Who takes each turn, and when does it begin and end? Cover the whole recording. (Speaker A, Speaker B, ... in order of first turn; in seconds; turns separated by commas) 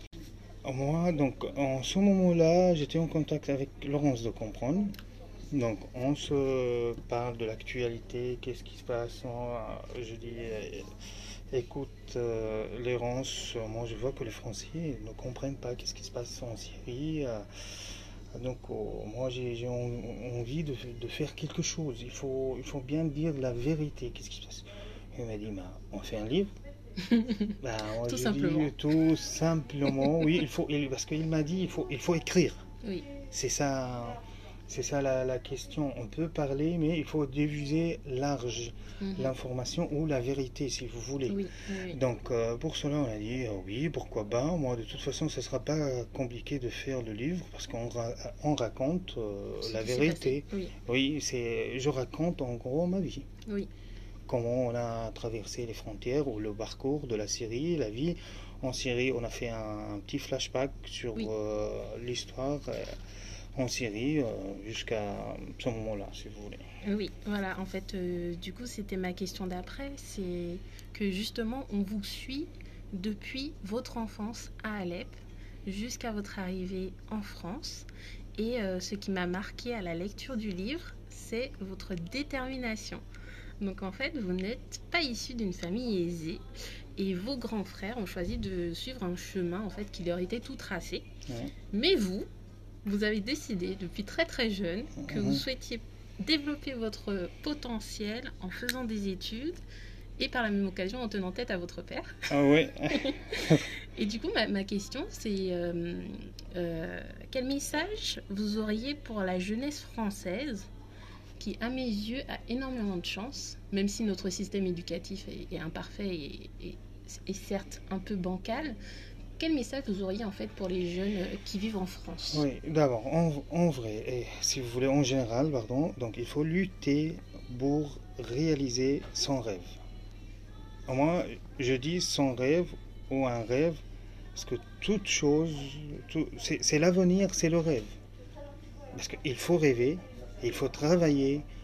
Speaker A: 0.6-4.9, Speaker A: 5.5-10.9, Speaker A: 11.5-17.5, Speaker A: 18.3-26.5, Speaker B: 27.1-28.8, Speaker A: 27.6-32.7, Speaker B: 32.8-33.1, Speaker A: 33.3-53.3, Speaker B: 39.0-39.3, Speaker B: 41.3-42.0, Speaker B: 49.6-50.7, Speaker A: 54.3-63.0, Speaker A: 63.5-66.6, Speaker B: 66.8-83.0, Speaker B: 83.6-86.4, Speaker B: 87.0-91.1, Speaker A: 91.3-91.5, Speaker B: 91.7-92.3, Speaker B: 92.8-99.6, Speaker A: 95.0-95.4, Speaker B: 100.2-102.3, Speaker A: 102.3-103.7, Speaker B: 102.9-110.7, Speaker B: 111.4-118.8, Speaker B: 119.4-122.5, Speaker A: 122.3-129.8, Speaker A: 130.9-133.8, Speaker A: 134.3-137.9, Speaker A: 138.9-141.5